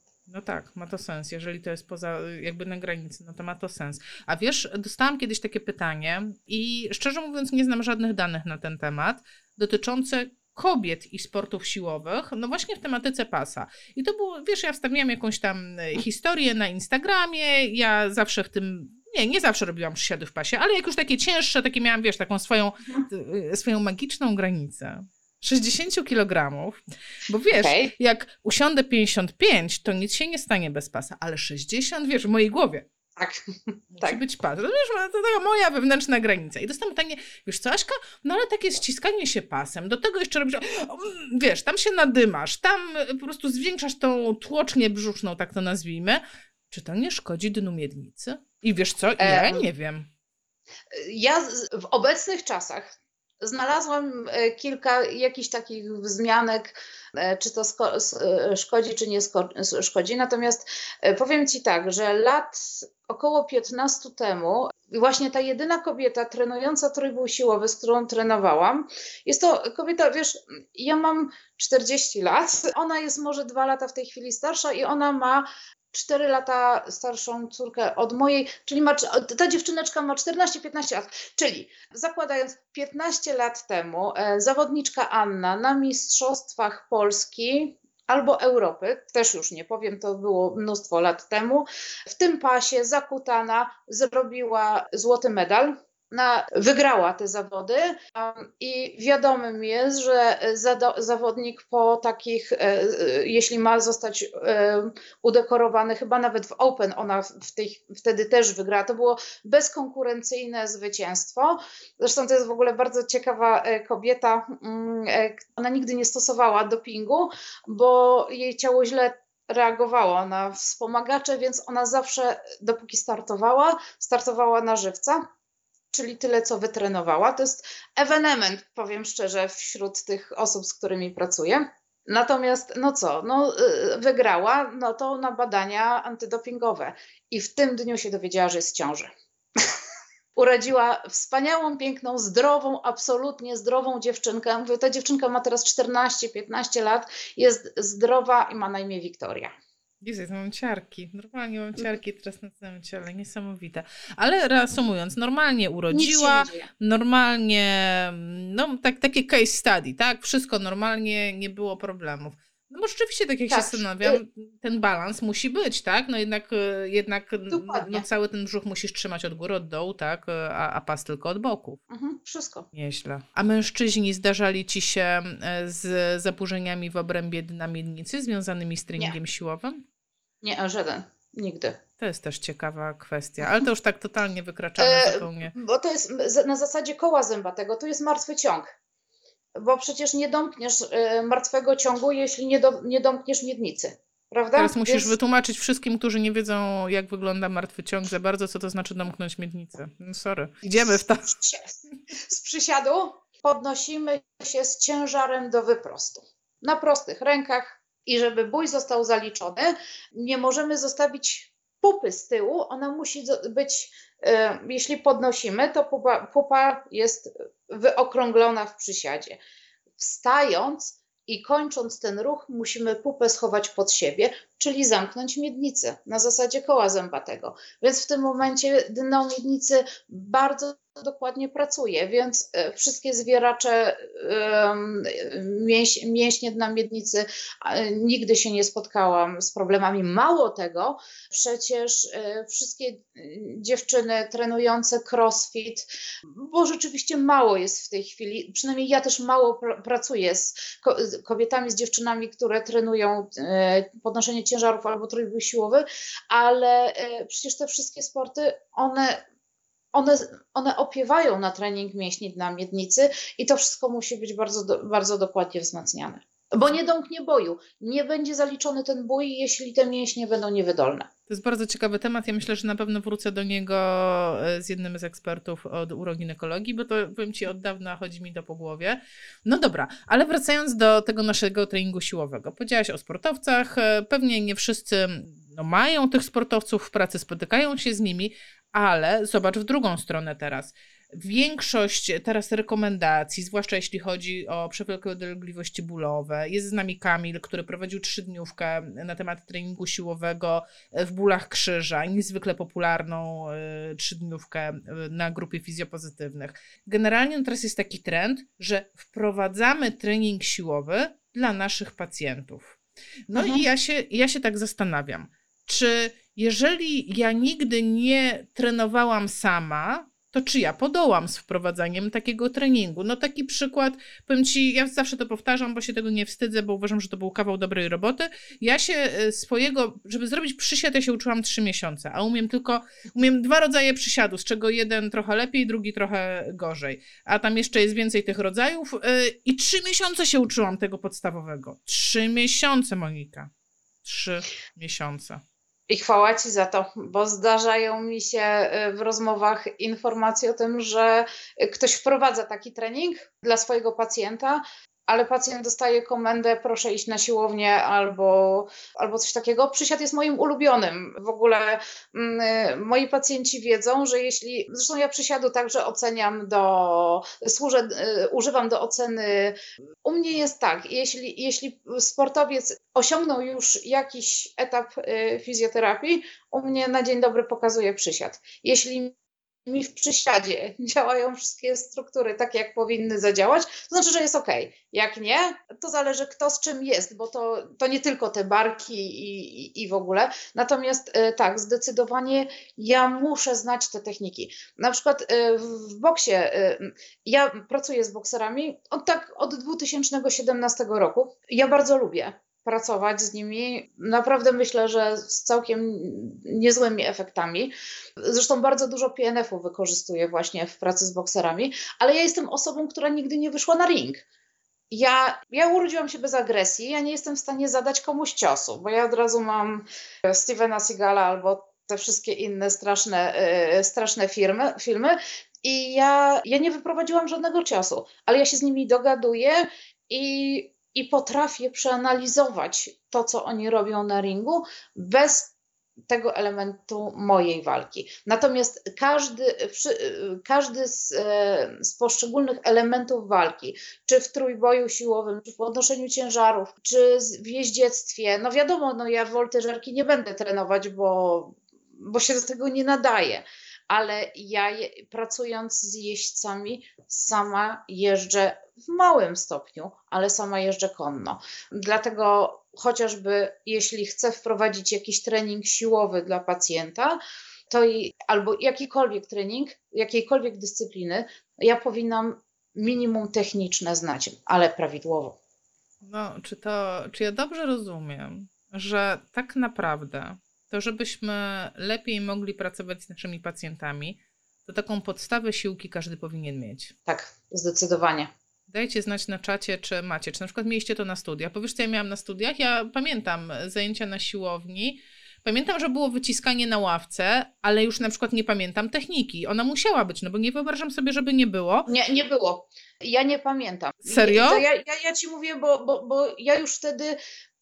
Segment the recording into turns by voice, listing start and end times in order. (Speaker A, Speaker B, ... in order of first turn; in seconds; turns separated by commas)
Speaker A: 0.3-32.9, Speaker B: 27.5-27.9, Speaker B: 33.2-34.2, Speaker A: 33.9-50.1, Speaker B: 49.2-49.6, Speaker B: 50.9-125.2, Speaker B: 125.9-139.1, Speaker B: 140.4-149.5, Speaker A: 150.0-171.8, Speaker B: 155.9-156.7, Speaker B: 163.5-164.2, Speaker B: 167.5-168.1, Speaker B: 171.9-172.7, Speaker A: 172.7-179.8, Speaker B: 180.4-181.8, Speaker A: 182.0-185.5, Speaker B: 184.8-188.7, Speaker B: 189.6-195.1, Speaker A: 194.6-201.3, Speaker B: 200.8-219.4, Speaker B: 220.0-259.2, Speaker B: 259.9-271.1, Speaker A: 271.3-312.8, Speaker A: 313.3-343.5, Speaker B: 313.3-313.6, Speaker A: 344.0-345.4, Speaker B: 345.9-414.2, Speaker B: 414.9-435.5, Speaker B: 436.1-475.4, Speaker A: 476.0-486.9, Speaker B: 487.1-488.3, Speaker A: 488.7-501.9, Speaker B: 501.9-507.2, Speaker A: 504.1-504.6